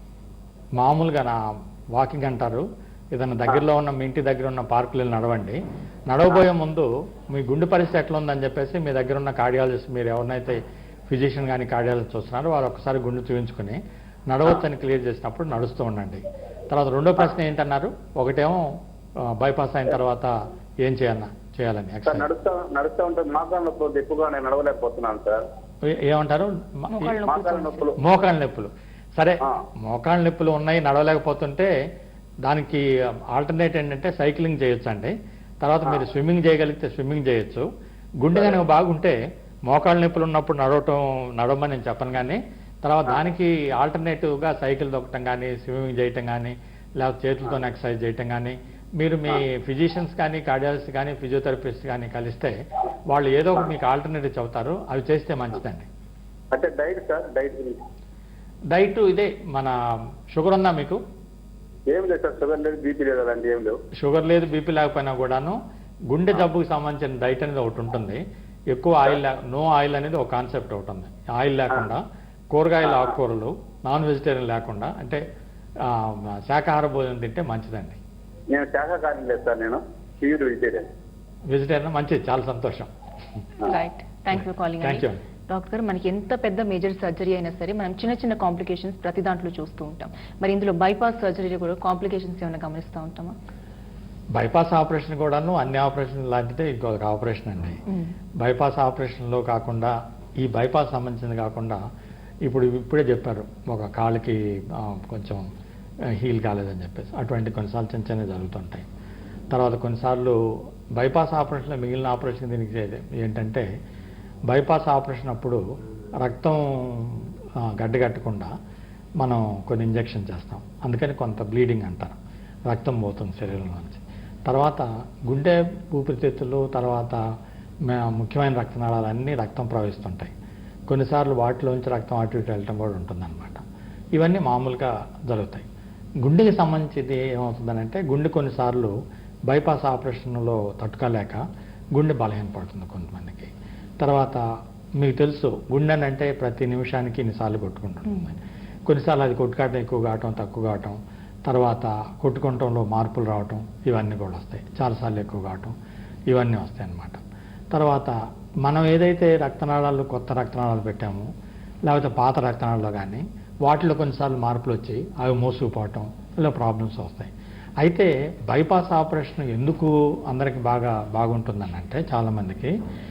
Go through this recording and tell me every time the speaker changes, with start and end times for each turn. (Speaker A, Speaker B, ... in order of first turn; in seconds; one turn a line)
Speaker A: 0.8-18.6
Speaker A: 19.2-22.3
Speaker B: 22.1-25.4
Speaker A: 25.9-27.1
Speaker C: 26.9-27.8
Speaker B: 27.2-28.0
Speaker A: 28.0-31.7
Speaker A: 32.4-37.7
Speaker A: 38.2-52.6
Speaker A: 53.1-55.9
Speaker B: 56.5-57.8
Speaker A: 58.7-59.8
Speaker A: 60.3-61.0
Speaker B: 61.9-63.8
Speaker A: 64.0-65.6
Speaker A: 66.1-75.2
Speaker A: 75.8-78.0
Speaker B: 78.5-80.9
Speaker A: 81.5-82.9
Speaker C: 83.6-93.3
Speaker A: 84.8-85.2
Speaker A: 94.3-97.8
Speaker A: 98.4-101.8
Speaker A: 102.5-105.4
Speaker A: 106.1-108.9
Speaker A: 109.5-110.4
Speaker A: 111.0-113.7
Speaker A: 114.5-115.6
Speaker A: 116.2-118.5
Speaker A: 119.2-122.2
Speaker A: 122.7-127.2
Speaker A: 127.9-130.3
Speaker A: 130.9-133.6
Speaker A: 134.1-135.7
Speaker A: 136.2-138.9
Speaker A: 139.5-141.4
Speaker A: 141.9-144.4
Speaker A: 145.0-155.7
Speaker A: 156.3-161.3
Speaker A: 161.9-172.7